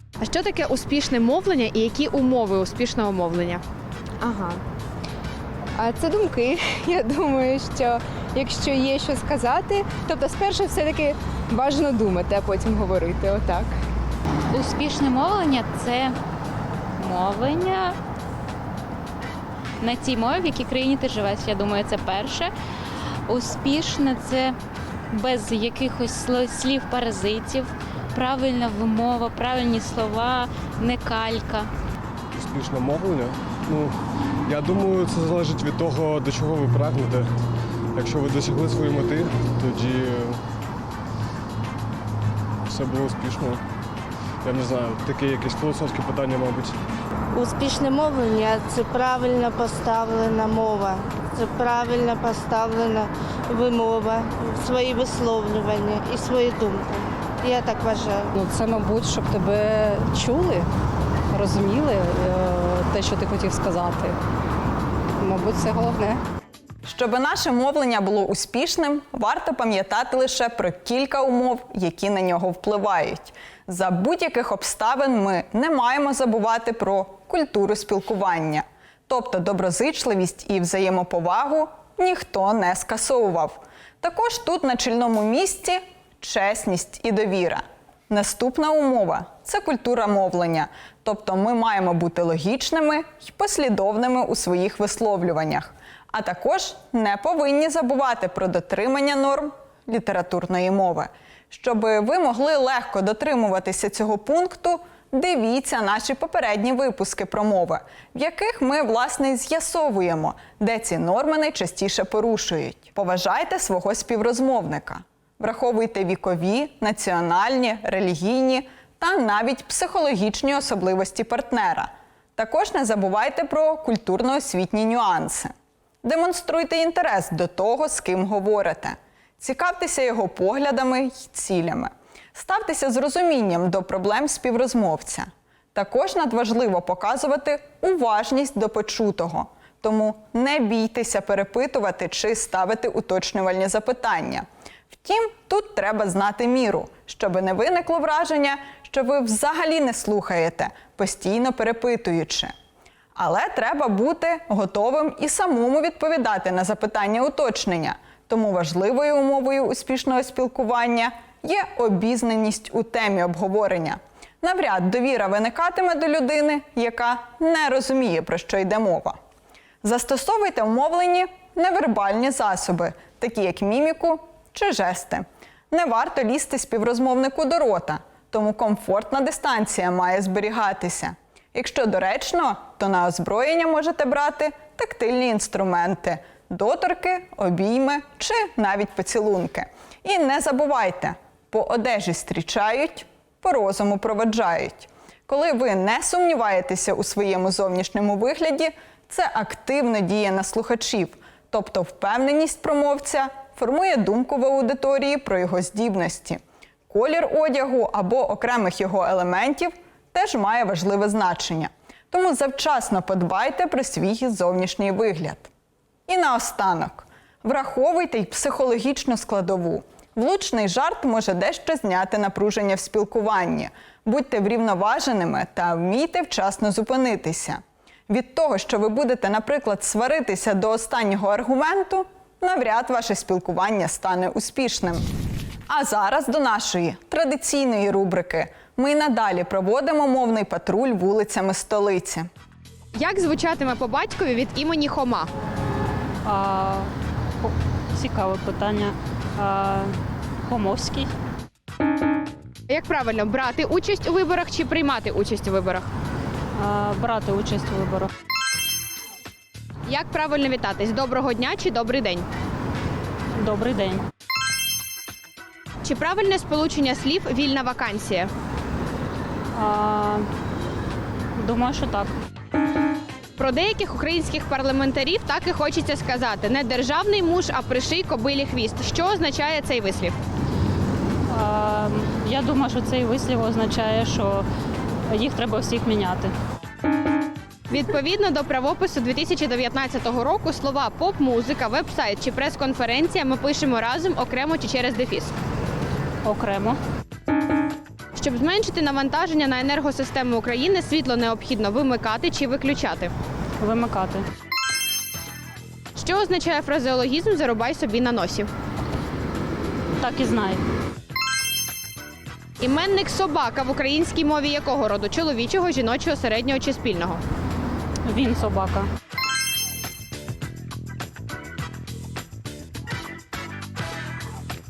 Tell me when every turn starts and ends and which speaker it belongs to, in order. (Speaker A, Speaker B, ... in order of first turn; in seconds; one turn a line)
Speaker A: 0.2-3.6
Speaker B: 4.2-4.5
Speaker B: 5.8-13.7
Speaker C: 14.5-16.1
Speaker D: 14.7-16.1
Speaker D: 17.0-17.7
Speaker C: 17.0-17.9
Speaker C: 19.8-22.5
Speaker D: 19.9-22.3
Speaker C: 23.3-24.5
Speaker D: 23.5-24.5
Speaker C: 25.1-31.7
Speaker D: 25.4-27.5
Speaker D: 28.2-30.5
Speaker D: 31.1-31.6
Speaker E: 32.3-37.3
Speaker E: 38.0-40.4
Speaker E: 42.7-43.6
Speaker E: 44.4-46.8
Speaker F: 47.3-58.3
Speaker G: 58.3-60.7
Speaker G: 61.3-64.2
Speaker G: 65.2-66.2
Speaker H: 66.8-152.5
Speaker H: 153.2-169.2
Speaker H: 169.8-215.5
Speaker H: 216.1-235.1
Speaker H: 235.7-242.3
Speaker A: 242.9-245.3
Speaker D: 246.2-246.9
Speaker D: 247.4-251.1
Speaker A: 252.7-255.9
Speaker D: 256.6-258.1
Speaker A: 259.9-262.3
Speaker D: 263.4-264.0
Speaker A: 265.8-268.3
Speaker D: 269.6-270.2
Speaker D: 271.4-272.1
Speaker A: 273.4-280.1
Speaker D: 281.3-284.5
Speaker D: 285.1-286.3
Speaker A: 287.7-295.3
Speaker D: 296.2-296.8
Speaker A: 298.2-303.1
Speaker D: 303.6-304.2
Speaker A: 306.0-308.5
Speaker D: 310.0-310.6
Speaker A: 312.6-317.2
Speaker D: 318.1-318.9